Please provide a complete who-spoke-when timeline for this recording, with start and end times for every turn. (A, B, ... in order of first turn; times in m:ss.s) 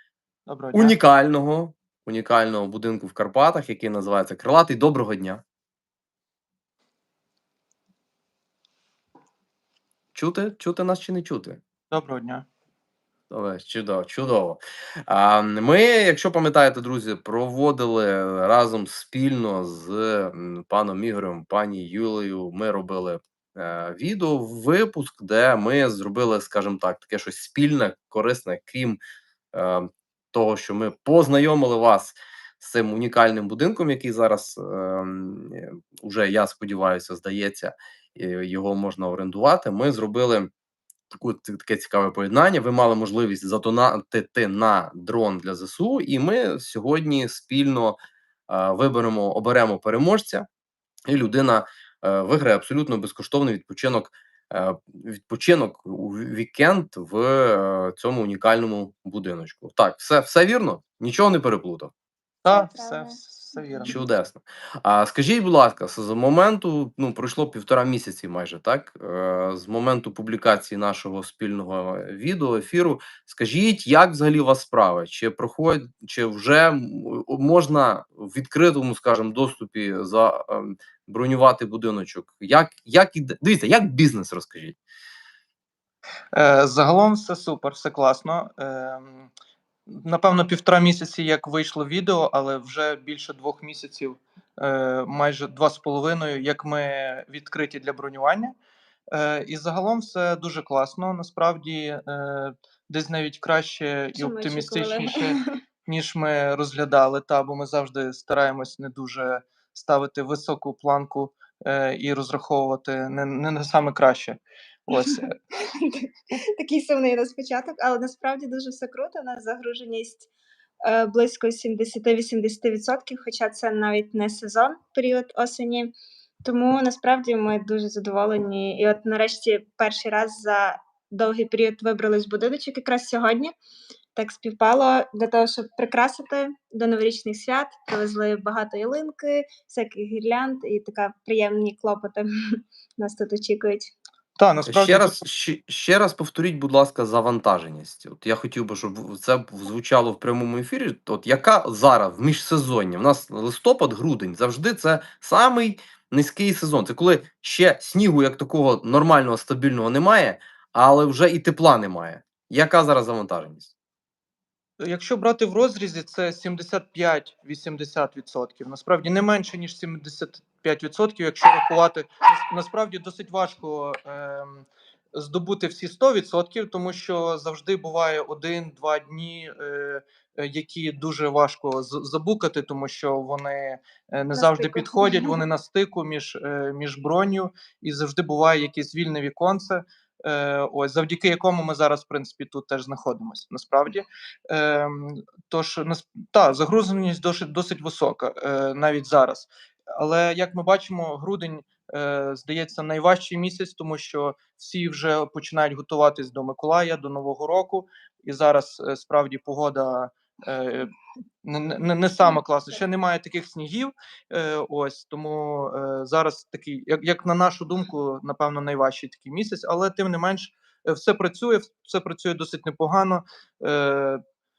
0:00.5-0:01.0 A
0:00.7-0:05.4 B
0:10.1-0:11.6 B
0:11.9-0:12.4 A
0:13.3-0:29.0 B
0:29.5-0:40.5 B
0:41.1-0:48.0 B
0:48.5-0:50.5 B
0:51.1-1:01.9 B
1:02.4-1:04.0 A
1:02.5-1:04.0 C
1:03.9-1:24.8 B
1:26.3-1:29.3 A
1:29.9-1:38.5 A
1:39.1-1:55.3 A
1:44.1-1:45.4 C
1:55.7-2:00.3 C
2:00.8-2:05.9 C
2:06.4-2:13.5 C
2:14.1-2:22.2 C
2:23.0-2:23.9 C
2:24.4-2:25.2 A
2:24.6-2:43.7 B
2:44.8-3:30.9 A
3:04.3-3:05.4 C
3:31.4-3:44.2 A